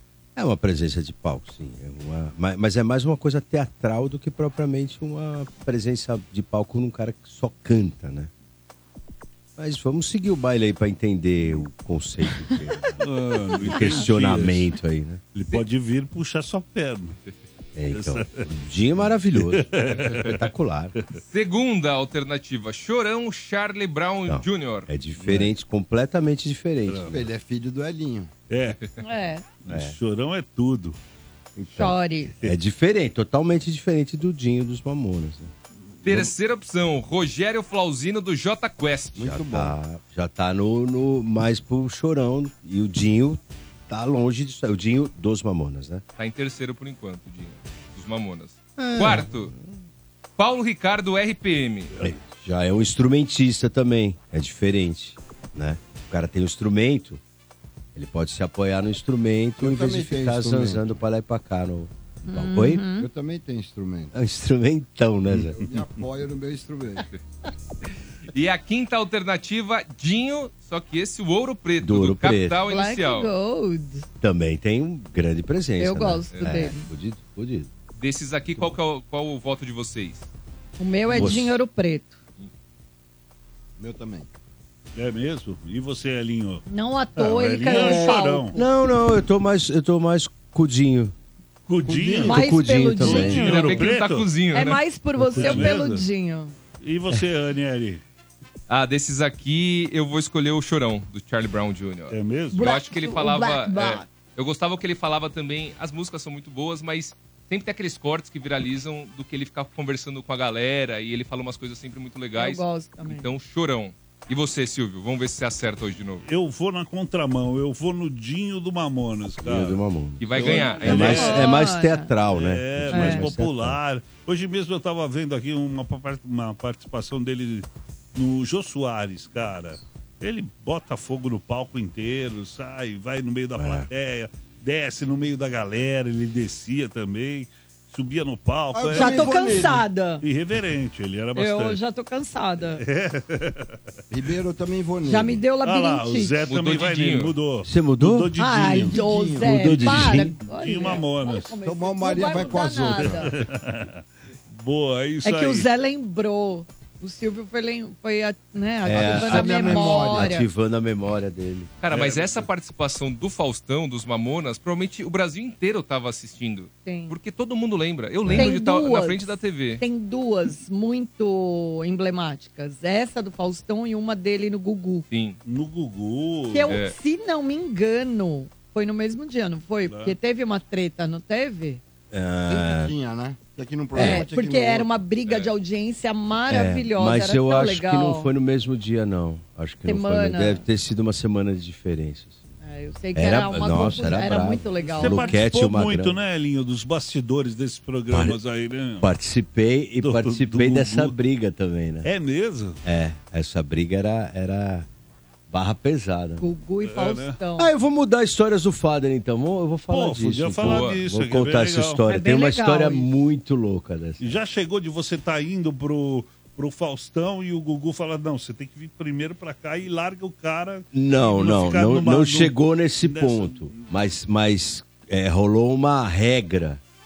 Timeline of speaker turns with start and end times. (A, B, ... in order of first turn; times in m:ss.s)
0:00.4-0:08.3 A
0:09.6-0:13.0 A
0:13.0-0:14.7 B
0:13.6-0:15.2 A
0:15.3-0:17.2 B
0:17.7-0:20.9 A
0:17.9-0:18.4 B
0:19.4-0:20.4 B
0:21.2-0:24.9 C
0:24.3-0:27.2 A
0:25.2-0:25.5 B
0:26.9-0:27.1 B
0:27.1-0:28.3 D
0:28.5-0:28.8 B
0:29.0-0:29.4 E
0:29.6-0:31.0 B
0:29.7-0:29.9 A
0:31.6-0:35.5 A
0:31.8-0:32.3 E
0:36.0-0:39.3 C
0:39.2-0:39.8 D
0:39.2-0:46.0 A
0:46.2-0:49.5 C
0:48.8-0:49.8 A
0:50.4-0:51.9 C
0:52.0-0:57.2 A
0:57.9-1:02.8 A
0:59.6-1:00.8 D
1:02.2-1:03.1 E
1:03.0-1:04.1 D
1:04.1-1:05.5 A
1:05.3-1:05.8 B
1:05.5-1:07.1 D
1:08.3-1:13.3 C
1:11.8-1:12.6 A
1:12.7-1:14.1 E
1:14.2-1:17.7 A
1:15.8-1:16.9 E
1:16.3-1:16.6 C
1:18.0-1:20.3 C
1:20.8-1:22.2 E
1:21.2-1:21.5 A
1:21.2-1:21.4 B
1:23.8-1:24.3 D
1:24.9-1:26.6 B
1:26.7-1:28.6 E
1:27.2-1:28.6 B
1:27.7-1:31.1 A
1:31.7-1:34.3 B
1:31.9-1:33.8 A
1:32.2-1:33.6 E
1:33.4-1:34.8 C
1:34.5-1:36.5 E
1:35.2-1:36.0 B
1:36.8-1:38.0 B
1:38.7-1:56.2 C
1:42.1-1:42.6 B
1:42.5-1:44.0 E
1:52.4-1:53.3 E
1:56.2-1:59.8 B
1:59.4-2:03.8 A
2:00.2-2:01.3 C
2:00.3-2:01.4 B
2:00.4-2:02.1 E
2:02.3-2:19.6 B
2:02.9-2:03.3 E
2:13.6-2:13.9 A
2:18.7-2:19.8 D
2:18.9-2:20.2 E
2:20.2-2:21.8 B
2:21.4-2:22.8 E
2:22.8-2:23.8 B
2:24.1-2:25.4 D
2:25.0-2:26.4 E
2:25.6-2:31.6 B
2:26.5-2:27.4 C
2:27.6-2:28.3 A
2:28.4-2:33.3 E
2:28.8-2:29.9 D
2:29.4-2:30.4 A
2:31.6-2:33.3 D
2:33.0-2:35.7 B
2:35.2-2:40.5 E
2:38.8-2:41.7 A
2:39.0-2:40.4 D
2:41.8-2:49.8 C
2:41.9-2:42.4 B
2:46.9-2:47.1 E
2:48.2-2:48.5 A
2:48.3-2:49.2 E
2:49.8-2:55.0 E
2:55.1-2:55.4 C
2:55.4-2:56.8 B
2:56.5-3:01.8 E
2:59.8-3:00.1 B
3:02.1-3:02.9 A
3:02.5-3:04.9 D
3:03.9-3:08.3 E
3:04.0-3:04.3 A
3:06.5-3:12.4 A
3:09.9-3:10.6 E
3:12.6-3:15.4 E
3:13.1-3:16.2 A
3:14.9-3:19.1 B
3:18.1-3:18.4 A
3:19.0-3:22.1 A
3:20.0-3:21.2 B
3:22.0-3:22.8 B
3:22.8-3:24.9 A
3:25.5-3:26.4 A
3:26.4-3:27.7 E
3:26.8-3:27.4 B
3:27.6-3:34.3 A
3:29.9-3:32.0 B
3:30.6-3:31.0 C
3:32.1-3:33.1 E
3:34.2-3:43.9 B
3:40.9-3:46.8 A